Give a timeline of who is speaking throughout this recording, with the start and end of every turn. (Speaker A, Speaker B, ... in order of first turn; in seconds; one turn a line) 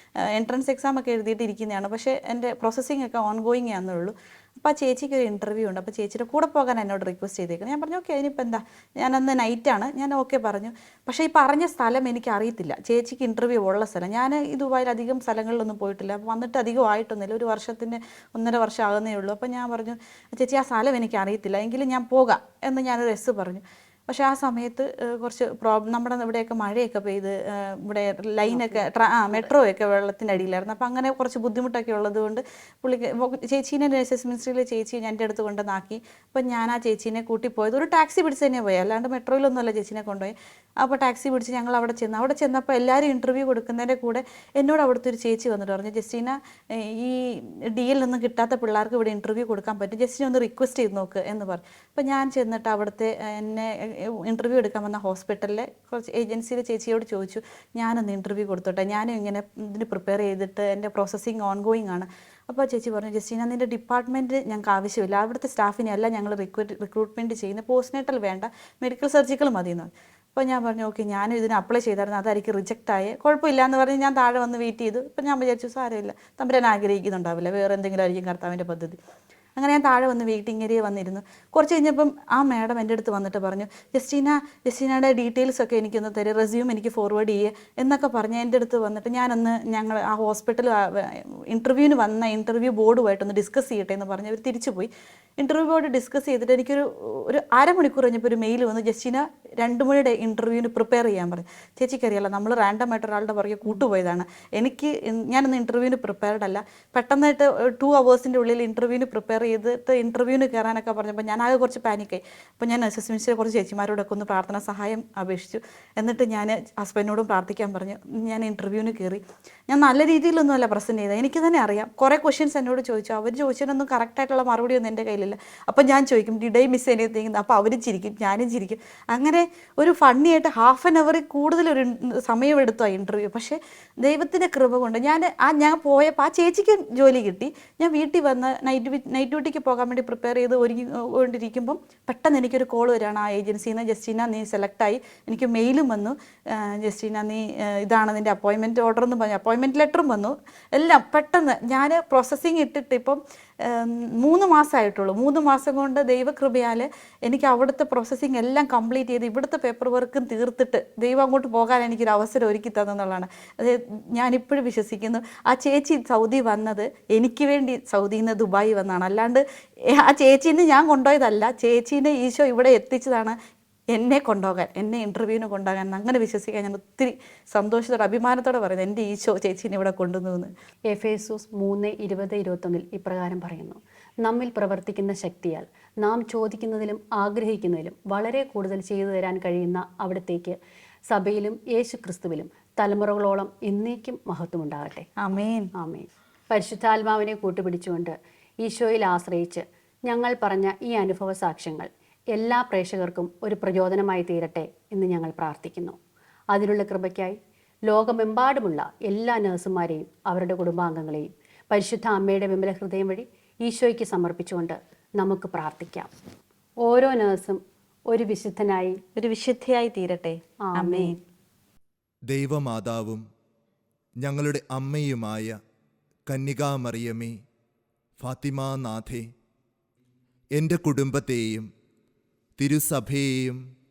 Speaker A: 0.3-79.0
Speaker B: 28.5-29.5
Speaker A: 79.6-173.4
Speaker A: 173.9-180.5
Speaker B: 180.9-190.6
Speaker B: 191.1-195.1
Speaker A: 195.2-195.7
Speaker B: 195.7-206.0
Speaker B: 206.5-216.1
Speaker B: 216.8-219.0
Speaker A: 219.2-221.2
Speaker B: 220.6-221.2
Speaker C: 222.3-223.2
Speaker C: 224.2-225.6
Speaker C: 226.3-227.4
Speaker C: 228.2-229.3
Speaker C: 230.6-231.7
Speaker C: 232.6-233.6